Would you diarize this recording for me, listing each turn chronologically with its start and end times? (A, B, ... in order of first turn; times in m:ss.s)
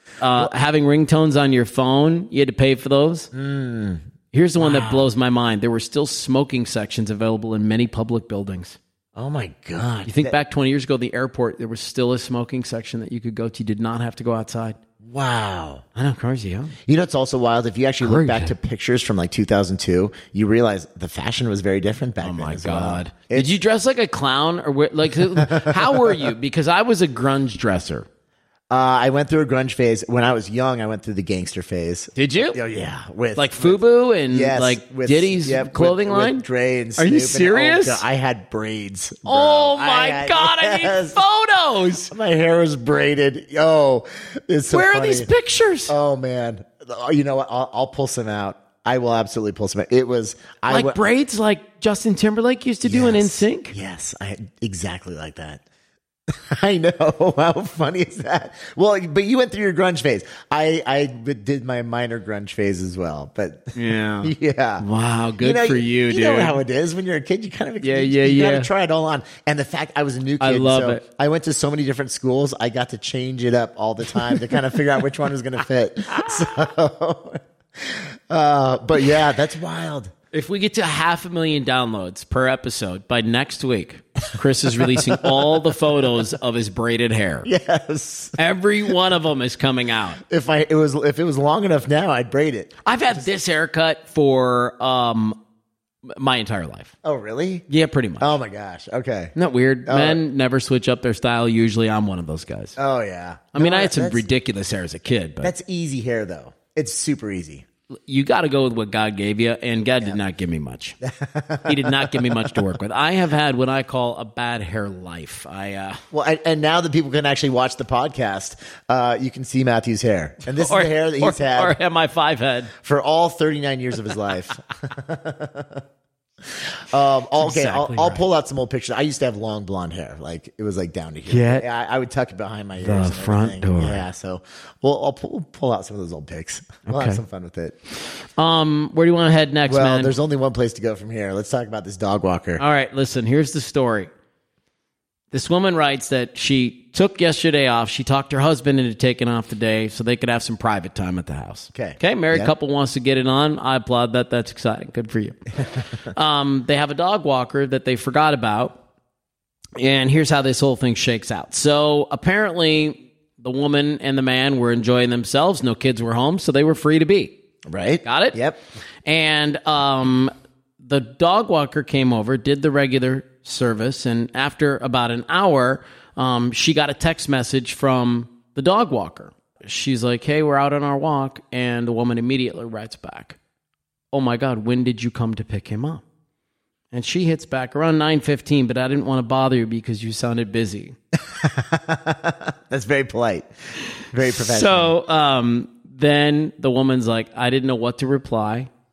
0:00.2-0:03.3 A
0:03.3-0:04.0 B
0:04.3-0:08.8 A
0:04.6-0:05.0 B
0:09.2-0:10.4 B
0:10.0-0:14.8 A
0:15.0-0:15.8 B
0:15.9-0:16.7 A
0:16.9-0:23.5 B
0:18.0-0:18.5 A
0:22.2-0:28.1 A
0:25.4-0:26.3 B
0:28.7-0:41.2 B
0:32.2-0:32.6 A
0:33.3-0:36.4 A
0:37.0-0:38.0 A
0:39.2-0:42.1 A
0:42.1-0:45.3 B
0:44.7-0:45.9 A
0:45.9-0:51.0 B
0:50.7-0:53.7 A
0:52.8-0:55.6 B
0:56.3-1:04.8 B
1:03.7-1:06.6 A
1:05.4-1:20.1 B
1:07.8-1:08.7 A
1:10.4-1:11.0 A
1:20.3-1:27.5 A
1:24.8-1:25.4 B
1:27.4-1:28.4 B
1:28.4-1:30.2 A
1:30.2-1:32.8 B
1:32.8-1:35.4 A
1:36.0-1:36.9 A
1:37.0-1:37.6 B
1:37.7-1:38.4 A
1:38.2-1:39.3 B
1:39.4-1:42.8 A
1:39.8-1:40.2 B
1:42.8-1:44.2 B
1:43.5-1:45.5 A
1:45.4-1:47.6 B
1:48.1-1:51.0 A
1:51.0-1:52.7 B
1:51.6-1:56.0 A
1:56.1-2:01.8 B
2:00.5-2:02.7 A
2:02.8-2:05.8 B
2:06.5-2:17.8 B
2:07.4-2:08.2 A
2:11.3-2:11.6 A
2:12.8-2:14.0 A
2:16.9-2:17.2 A
2:18.4-2:20.1 A
2:19.7-2:22.6 B
2:22.6-2:24.1 A
2:25.3-2:35.4 A
2:31.7-2:32.5 B
2:36.0-2:38.8 A
2:39.8-2:47.4 A
2:47.7-2:48.6 B
2:48.0-2:48.4 A
2:49.0-3:03.4 A
3:04.1-3:06.0 A
3:06.9-3:11.0 A
3:11.3-3:13.5 B
3:14.0-3:15.0 B
3:14.2-3:18.7 A